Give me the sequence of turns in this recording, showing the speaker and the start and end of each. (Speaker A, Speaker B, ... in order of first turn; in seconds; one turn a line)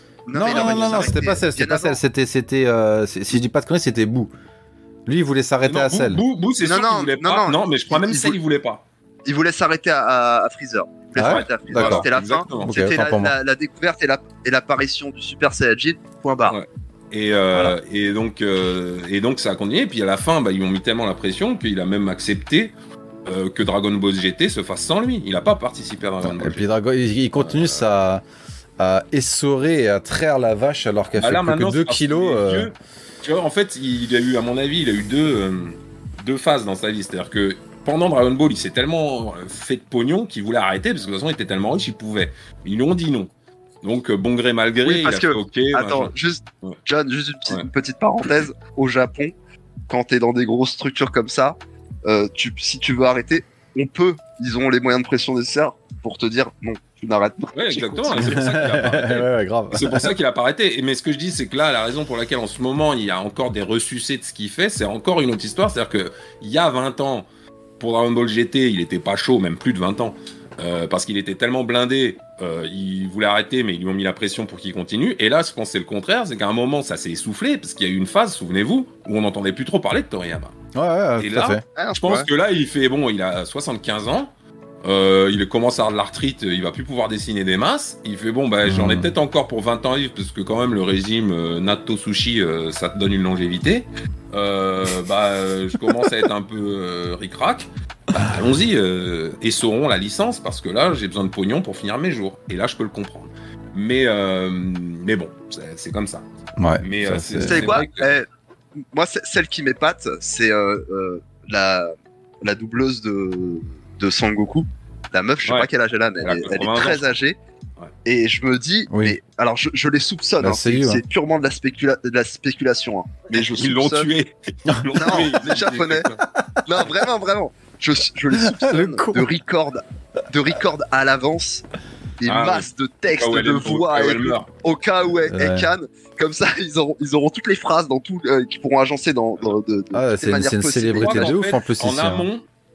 Speaker A: 0.3-2.0
Speaker B: 0.3-4.3
Speaker C: 0.4-1.2
Speaker B: 5.0-6.2
Speaker C: 5.6-8.8
Speaker A: 6.6-8.4
Speaker A: 9.2-16.6
Speaker B: 11.2-12.1
Speaker C: 11.2-12.7
Speaker B: 12.6-13.3
Speaker C: 16.4-22.7
Speaker C: 23.2-26.6
Speaker B: 26.2-28.2
Speaker C: 27.4-27.8
Speaker B: 28.8-32.7
Speaker C: 31.1-43.3
Speaker C: 43.8-46.1
Speaker A: 44.8-49.3
Speaker A: 49.9-58.4
Speaker C: 57.5-67.3
Speaker B: 58.1-60.1
Speaker C: 67.8-80.5
Speaker B: 80.7-81.6
Speaker C: 81.2-84.3
Speaker A: 81.8-82.3
Speaker C: 84.8-106.2
Speaker B: 88.6-89.1
Speaker B: 106.6-107.7
Speaker C: 106.8-108.1
Speaker A: 107.5-108.3
Speaker A: 108.9-117.4
Speaker C: 116.2-117.1
Speaker A: 118.0-124.1
Speaker B: 118.9-119.2
Speaker B: 120.4-121.0
Speaker C: 123.3-126.2
Speaker A: 124.9-126.1
Speaker B: 126.3-126.7
Speaker A: 126.6-131.6
Speaker B: 128.3-129.3
Speaker A: 132.2-141.3
Speaker C: 132.2-134.5
Speaker B: 135.3-135.7
Speaker B: 139.9-142.2
Speaker C: 140.9-142.4